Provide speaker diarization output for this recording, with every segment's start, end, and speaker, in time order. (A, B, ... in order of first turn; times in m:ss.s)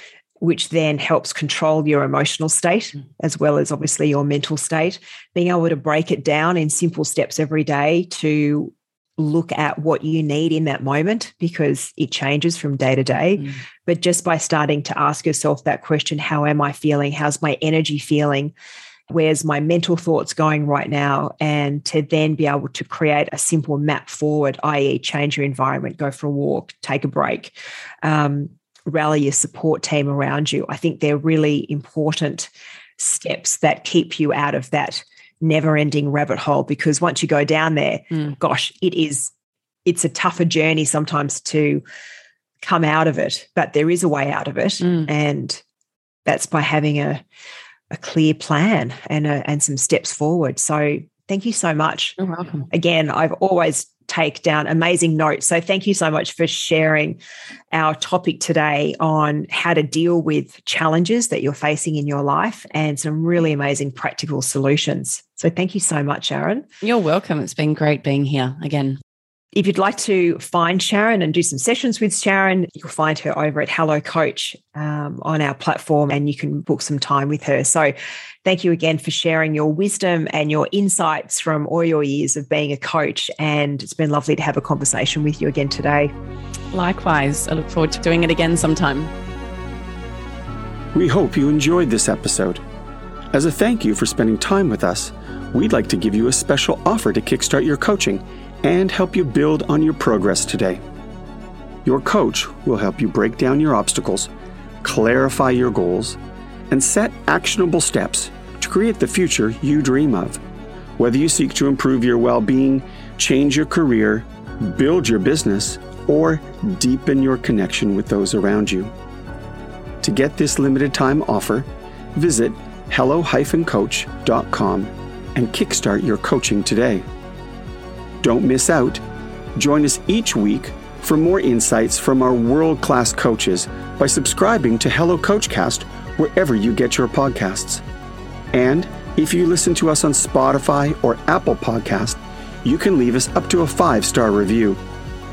0:00.4-0:18.5 A
0:19.1-0:39.3 A
0:39.8-0:41.8 A
0:42.6-0:45.6 A
0:46.2-0:47.2 A
0:47.9-0:52.2 A
0:52.2-0:52.7 B
0:52.7-0:57.2 A
0:57.7-1:06.6 A
1:06.8-1:09.0 B
1:09.5-1:17.9 A
1:18.4-1:26.1 A
1:26.7-1:29.1 B
1:30.9-1:32.6 C
1:33.3-1:40.8 C
1:41.8-1:44.3 C
1:44.8-1:46.2 C
1:46.7-1:50.4 C
1:51.0-1:58.9 C
2:00.0-2:07.0 C
2:08.2-2:09.0 C
2:09.6-2:17.8 C
2:18.5-2:24.8 C